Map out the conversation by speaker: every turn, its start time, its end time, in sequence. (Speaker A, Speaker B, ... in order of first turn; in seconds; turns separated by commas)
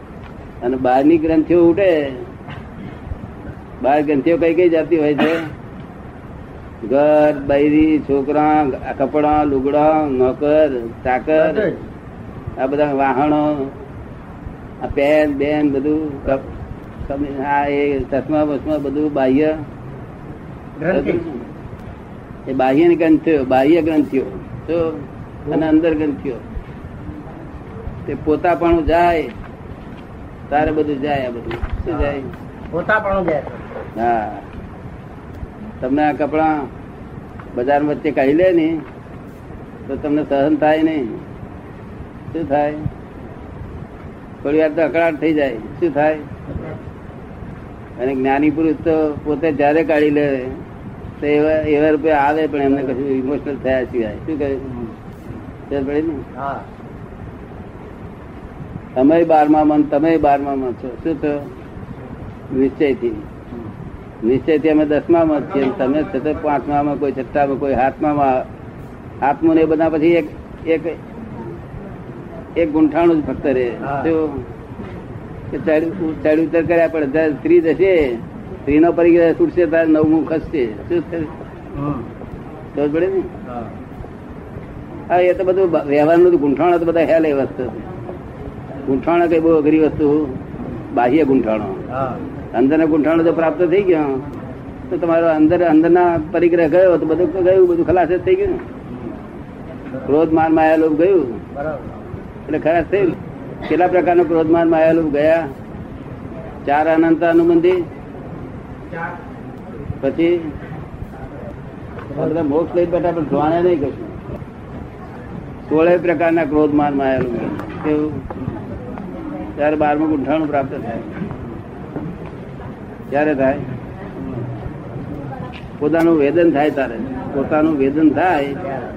Speaker A: 0.6-2.3, Speaker A: 3.8-5.5, Speaker A: 6.8-11.7, Speaker B: 11.3-11.8, Speaker A: 12.6-13.8, Speaker A: 14.8-16.5, Speaker A: 17.1-19.5, Speaker B: 20.8-21.2, Speaker A: 20.9-21.4, Speaker A: 22.5-26.4, Speaker A: 28.1-29.3, Speaker A: 30.5-32.3, Speaker B: 32.7-33.6, Speaker A: 33.9-34.5, Speaker A: 35.8-36.7, Speaker A: 37.5-38.8, Speaker A: 39.9-41.2, Speaker A: 42.3-42.9, Speaker A: 44.4-46.3, Speaker A: 48.0-50.6, Speaker A: 51.2-54.7, Speaker A: 55.7-56.2, Speaker B: 56.3-56.6, Speaker A: 59.0-61.5, Speaker A: 62.5-63.2, Speaker A: 64.2-68.5, Speaker A: 69.2-71.0, Speaker A: 72.6-74.5, Speaker B: 73.8-74.1, Speaker A: 75.5-81.3, Speaker B: 81.8-82.1, Speaker A: 82.7-83.3, Speaker B: 83.5-83.7, Speaker A: 85.1-87.9, Speaker A: 88.8-91.8, Speaker B: 91.9-92.2, Speaker A: 92.5-94.2, Speaker A: 94.9-98.6, Speaker A: 100.0-101.4, Speaker B: 101.5-101.9, Speaker A: 102.5-105.5, Speaker A: 106.6-107.8, Speaker A: 110.0-110.5, Speaker A: 112.1-114.1, Speaker A: 115.7-118.2, Speaker A: 119.6-121.1, Speaker A: 123.1-123.7, Speaker A: 125.8-128.7